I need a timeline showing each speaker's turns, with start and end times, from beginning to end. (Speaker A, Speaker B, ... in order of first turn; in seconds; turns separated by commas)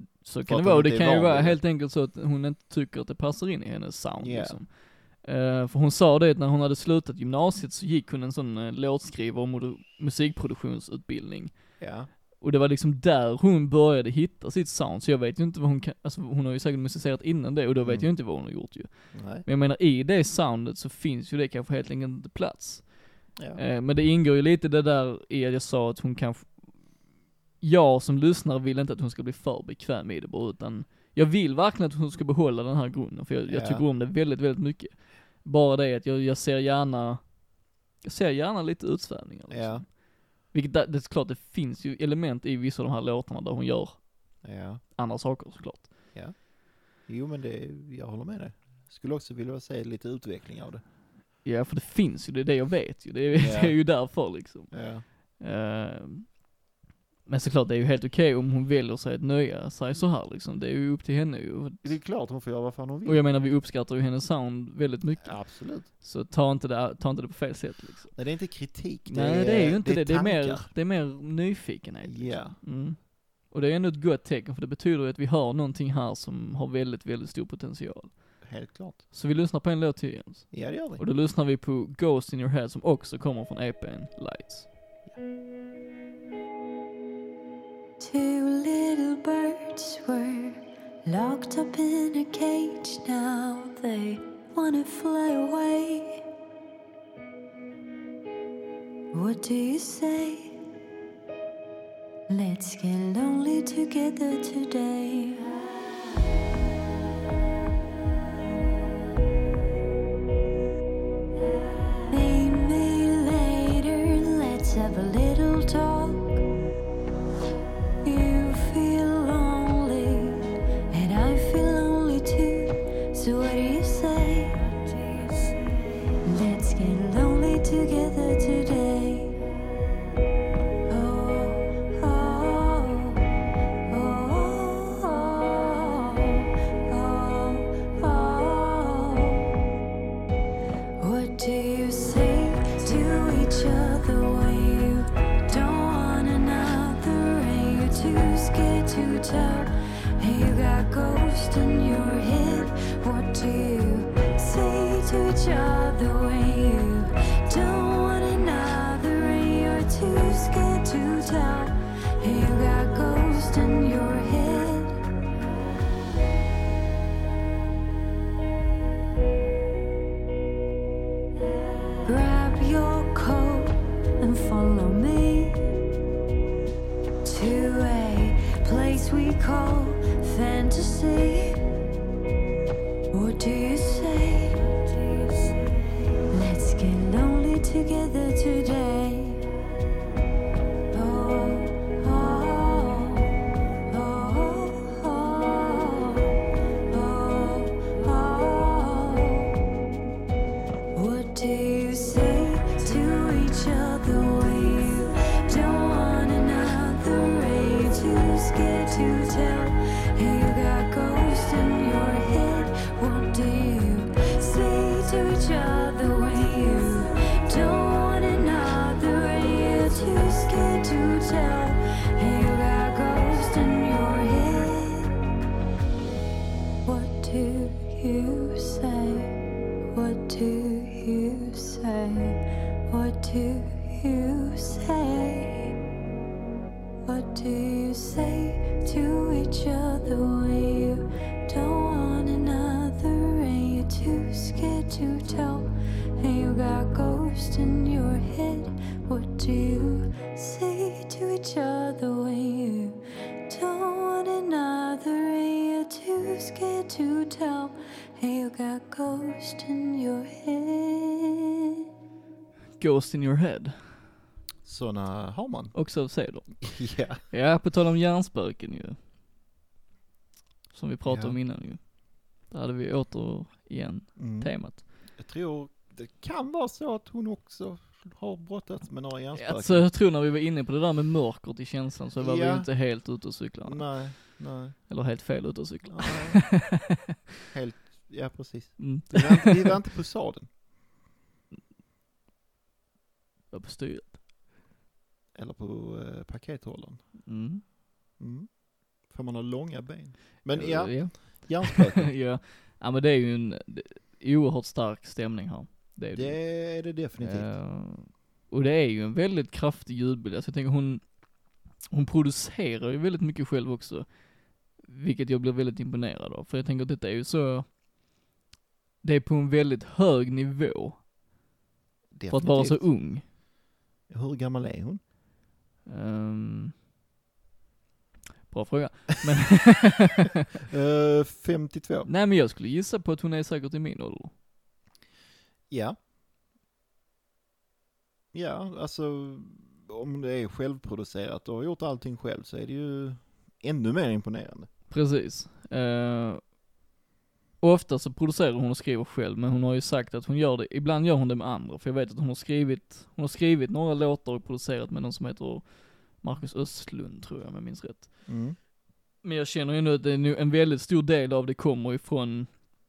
Speaker A: 0.2-11.8, Speaker B: 0.4-1.6, Speaker B: 4.2-4.6, Speaker B: 11.8-12.1, Speaker A: 12.3-23.0, Speaker B: 17.8-18.1, Speaker B: 19.1-19.4, Speaker B: 23.4-23.6, Speaker A: 23.5-27.0, Speaker A: 27.6-37.4, Speaker B: 33.5-33.8, Speaker A: 38.0-44.4, Speaker B: 39.5-39.9, Speaker B: 44.4-44.8, Speaker A: 44.9-46.0, Speaker B: 46.1-50.8, Speaker A: 51.4-56.4, Speaker B: 53.4-53.8, Speaker B: 54.7-55.0, Speaker A: 57.3-61.9, Speaker B: 61.8-63.2, Speaker A: 63.0-68.2, Speaker B: 65.2-65.9, Speaker B: 68.1-70.7, Speaker A: 69.1-78.4, Speaker B: 72.0-72.6, Speaker B: 78.4-79.0, Speaker A: 79.1-84.7, Speaker B: 80.5-81.0, Speaker C: 88.0-96.2, Speaker C: 99.1-100.6, Speaker C: 102.3-105.5, Speaker C: 112.1-116.4, Speaker C: 118.0-125.5, Speaker C: 126.2-129.4, Speaker C: 130.9-133.3, Speaker C: 133.9-139.5, Speaker C: 141.0-165.0, Speaker C: 172.1-175.7, Speaker C: 177.2-181.6, Speaker C: 183.1-185.5, Speaker C: 186.3-189.5, Speaker C: 190.9-193.3, Speaker C: 193.9-196.3, Speaker C: 196.9-199.6, Speaker C: 200.9-225.1, Speaker C: 226.8-229.4, Speaker C: 229.9-235.7, Speaker C: 237.1-245.7, Speaker C: 246.2-261.8, Speaker A: 262.8-264.0, Speaker B: 264.6-265.7, Speaker A: 265.7-269.0, Speaker B: 266.6-267.2, Speaker A: 270.7-274.8, Speaker B: 271.1-271.4, Speaker B: 274.2-279.9, Speaker A: 279.3-286.9, Speaker B: 282.2-282.7, Speaker B: 283.6-284.9, Speaker B: 285.9-286.7, Speaker B: 287.5-290.5, Speaker A: 288.8-289.8, Speaker A: 293.5-294.2, Speaker B: 295.4-297.0, Speaker A: 297.3-297.6, Speaker B: 298.2-302.1, Speaker A: 300.5-311.2, Speaker B: 306.1-307.5, Speaker A: 311.9-317.7, Speaker A: 319.0-321.0, Speaker B: 322.1-322.9, Speaker A: 322.3-323.2, Speaker B: 324.1-325.0, Speaker A: 325.9-326.7, Speaker A: 328.5-330.4, Speaker B: 330.6-332.1, Speaker A: 332.1-334.3, Speaker B: 335.7-336.0, Speaker B: 338.3-344.7, Speaker A: 344.9-346.4, Speaker A: 347.6-358.3, Speaker B: 358.3-358.6, Speaker A: 359.2-362.6